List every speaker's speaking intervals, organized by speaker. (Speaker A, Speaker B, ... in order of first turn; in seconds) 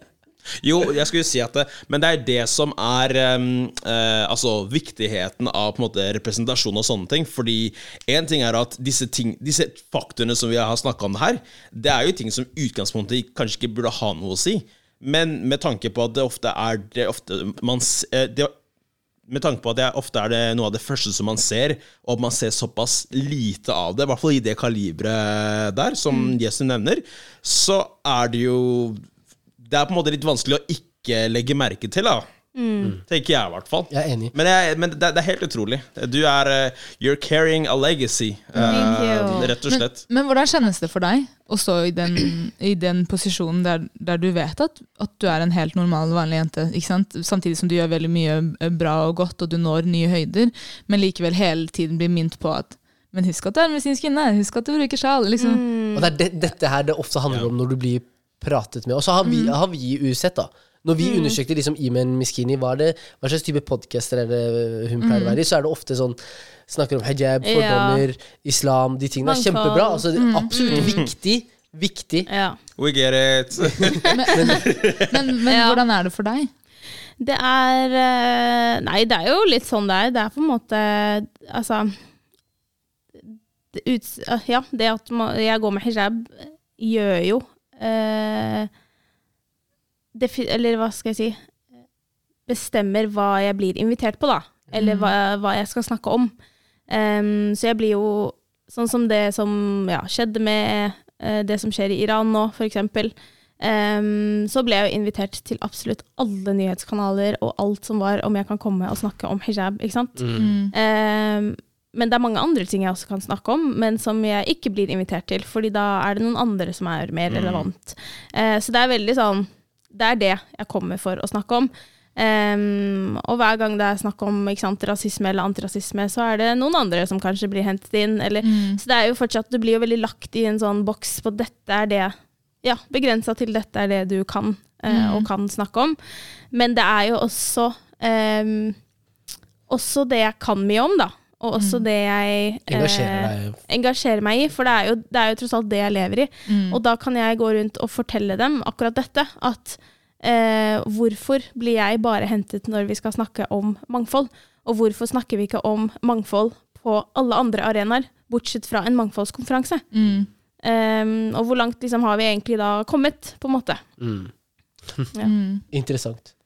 Speaker A: 0.6-18.5, 19.3-29.0, 29.6-32.3, 33.1-40.0, 70.7-71.1, 72.8-75.2, 117.3-117.7
Speaker B: 32.5-33.0, 38.6-39.5, 55.4-56.1, 61.0-61.4, 67.4-68.0, 69.2-71.0, 72.3-72.6, 75.5-75.8, 77.2-82.0, 83.7-88.7, 90.1-91.4, 92.5-96.3, 96.9-136.0, 136.5-138.8, 139.7-159.8, 160.6-163.8
Speaker C: 33.9-34.3, 55.9-66.2, 66.7-72.3, 73.8-74.7, 110.2-110.5, 142.7-143.6, 164.0-164.3, 165.7-166.3
Speaker D: 39.7-55.6, 59.2-59.5, 65.0-65.4, 70.2-70.5, 74.1-76.5, 94.8-95.1, 110.3-110.7, 128.4-128.8, 134.9-135.3, 141.6-141.8, 146.5-146.8, 159.9-160.3, 165.2-165.6